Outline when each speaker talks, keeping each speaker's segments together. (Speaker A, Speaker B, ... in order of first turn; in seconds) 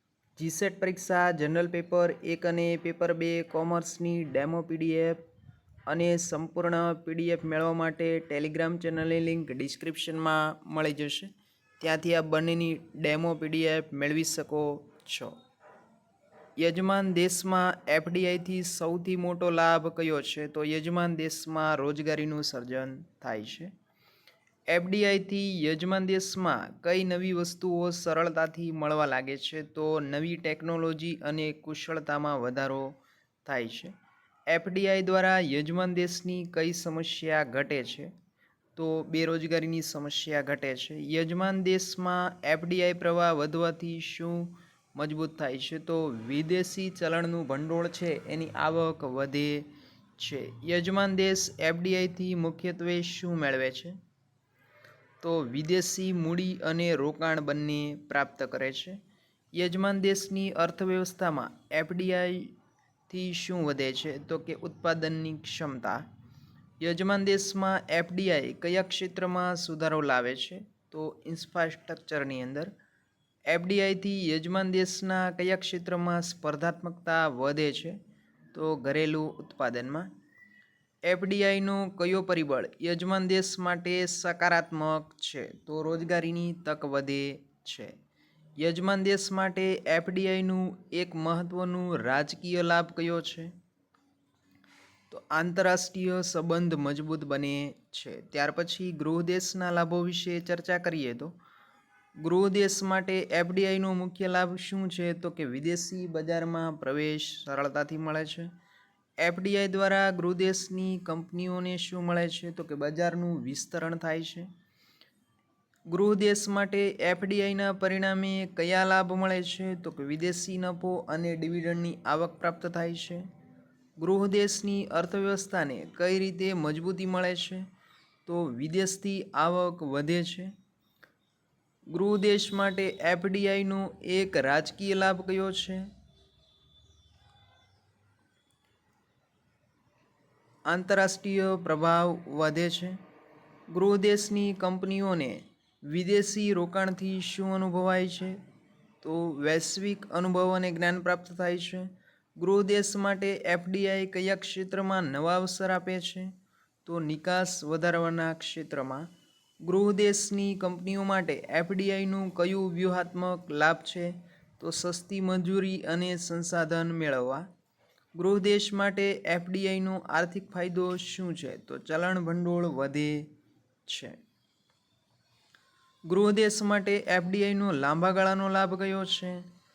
Speaker A: 0.4-5.2, 5.9-15.4, 16.6-23.7, 24.7-33.9, 34.5-38.1, 38.8-49.7, 50.2-54.0, 55.2-59.0, 59.6-62.5, 63.1-66.0, 66.8-72.7, 73.5-78.0, 78.5-80.1, 81.1-87.9, 88.6-93.5, 95.1-101.3, 102.2-108.5, 109.2-114.5, 115.9-123.2, 124.0-127.7, 128.3-130.5, 131.9-135.9, 140.7-143.0, 143.7-148.4, 149.0-156.3, 156.8-159.1, 159.7-167.5, 168.2-173.3, 173.9-174.2, 176.1-179.4